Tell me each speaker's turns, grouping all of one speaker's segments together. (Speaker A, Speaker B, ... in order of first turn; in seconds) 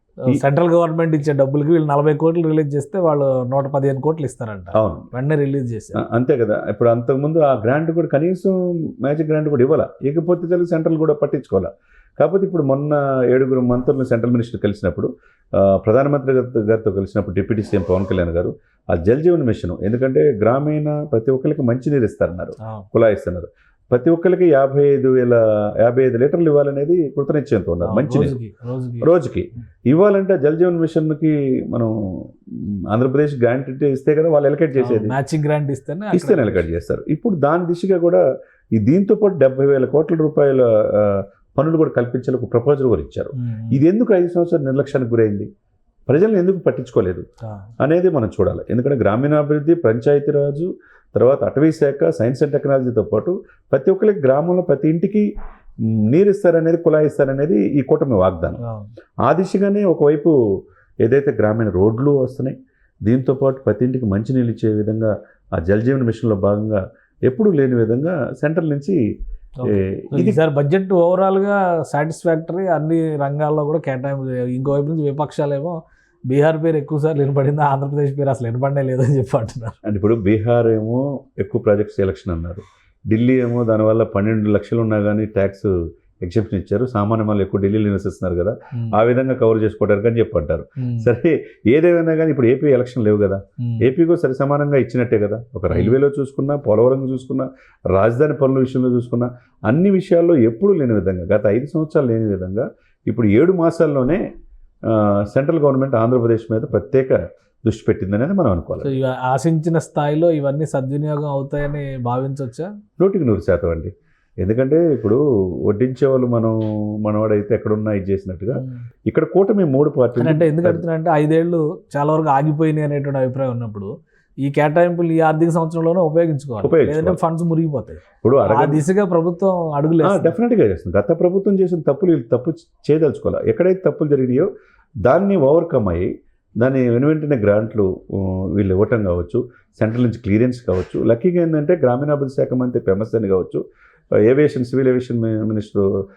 Speaker A: 0.2-6.0, 22.6-22.9, 27.8-29.1, 34.8-36.7, 43.3-43.8, 47.4-47.7, 58.6-58.9, 69.6-75.8, 76.3-79.8, 90.8-91.1, 93.6-93.9, 95.7-96.0, 108.8-112.7, 118.5-118.8, 120.2-123.9, 124.4-130.4
Speaker B: 4.7-5.1, 6.0-28.4, 29.0-35.2, 36.1-38.2, 38.8-45.5, 46.1-47.2, 47.8-55.3, 56.1-58.6, 59.2-60.4, 61.0-69.0, 69.7-70.4, 79.8-85.7, 86.2-104.2, 104.9-109.0, 113.0-120.8, 126.6-127.2, 128.2-128.8, 130.0-134.5, 135.0-136.1, 136.6-143.6, 144.2-145.9